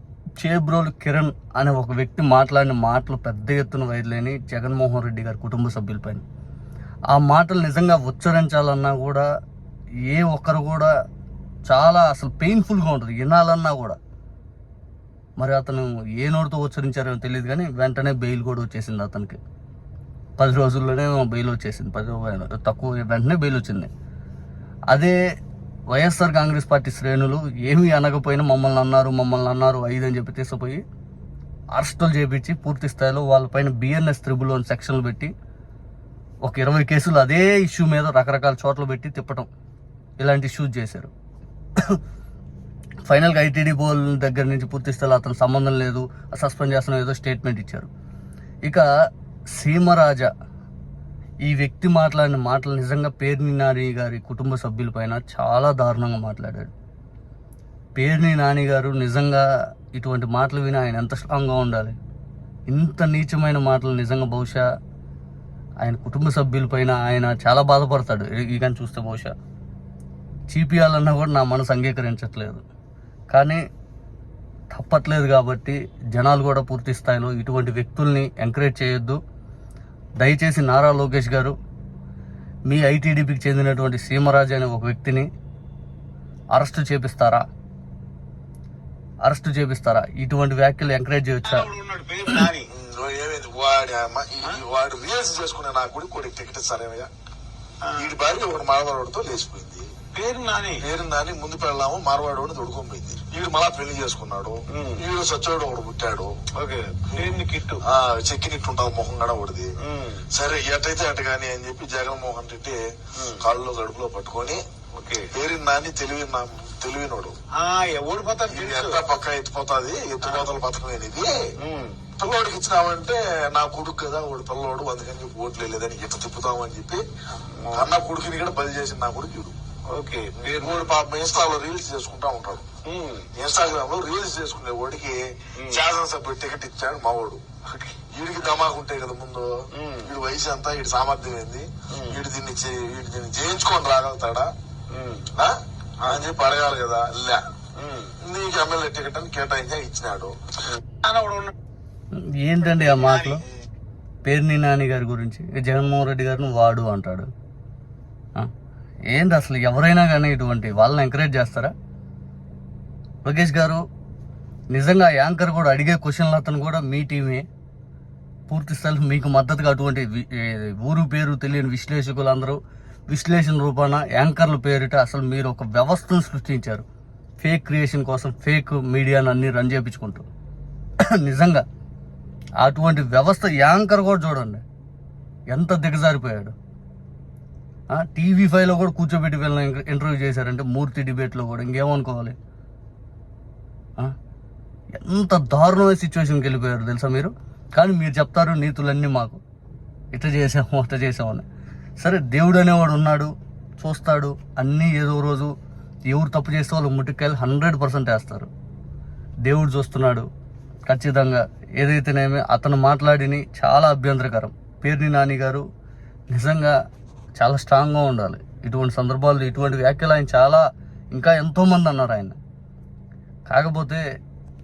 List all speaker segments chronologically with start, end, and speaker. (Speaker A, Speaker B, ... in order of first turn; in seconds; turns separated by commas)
Speaker A: 0.4-6.2, Speaker A: 7.1-9.2, Speaker A: 10.1-10.9, Speaker A: 11.7-14.0, Speaker A: 15.4-19.4, Speaker A: 20.4-23.9, Speaker A: 24.9-25.1, Speaker A: 25.9-30.8, Speaker A: 31.7-35.3, Speaker A: 36.4-39.5, Speaker A: 40.2-41.1, Speaker A: 43.1-47.9, Speaker A: 49.5-50.3, Speaker A: 51.5-56.7, Speaker A: 58.0-62.0, Speaker A: 62.7-64.6, Speaker A: 65.8-69.3, Speaker A: 70.5-72.6, Speaker A: 73.3-73.6, Speaker A: 74.7-79.2, Speaker A: 80.2-81.5, Speaker A: 82.7-85.3, Speaker A: 86.5-87.4, Speaker A: 89.2-91.7, Speaker B: 91.4-92.7, Speaker C: 92.7-97.1, Speaker B: 97.8-98.1, Speaker C: 98.0-99.9, Speaker B: 100.1-100.8, Speaker C: 100.8-106.3, Speaker B: 104.7-105.0, Speaker B: 106.5-107.8, Speaker C: 107.1-109.7, Speaker B: 109.8-110.3, Speaker C: 110.3-112.8, Speaker B: 113.2-113.4, Speaker C: 113.3-114.6, Speaker B: 114.9-115.3, Speaker C: 115.3-117.3, Speaker B: 117.5-119.0, Speaker C: 118.5-121.4, Speaker B: 121.6-122.0, Speaker C: 122.2-127.0, Speaker B: 127.4-127.9, Speaker C: 127.7-129.5, Speaker B: 129.9-130.9, Speaker C: 130.4-132.7, Speaker B: 132.8-133.3, Speaker C: 133.3-137.4, Speaker B: 135.6-135.8, Speaker B: 137.7-138.0, Speaker C: 138.1-144.5, Speaker B: 139.7-140.1, Speaker B: 141.9-142.2, Speaker B: 144.9-145.3, Speaker C: 145.3-147.4, Speaker B: 147.8-148.2, Speaker C: 148.2-150.3, Speaker B: 150.7-151.5, Speaker A: 152.4-153.4, Speaker B: 152.6-153.4, Speaker A: 154.2-157.3, Speaker A: 159.1-161.7, Speaker A: 163.2-163.8, Speaker A: 164.7-167.4, Speaker A: 168.5-172.6, Speaker A: 173.1-176.8, Speaker A: 177.4-180.2, Speaker A: 181.2-181.6, Speaker A: 182.6-184.6, Speaker A: 185.5-186.5, Speaker A: 187.9-192.3, Speaker A: 195.0-199.4, Speaker A: 200.1-201.4, Speaker A: 202.0-205.5, Speaker A: 206.1-208.5, Speaker A: 209.4-210.3, Speaker A: 210.9-215.6, Speaker A: 216.3-216.8, Speaker A: 217.4-220.6, Speaker A: 221.1-222.4, Speaker A: 223.5-224.0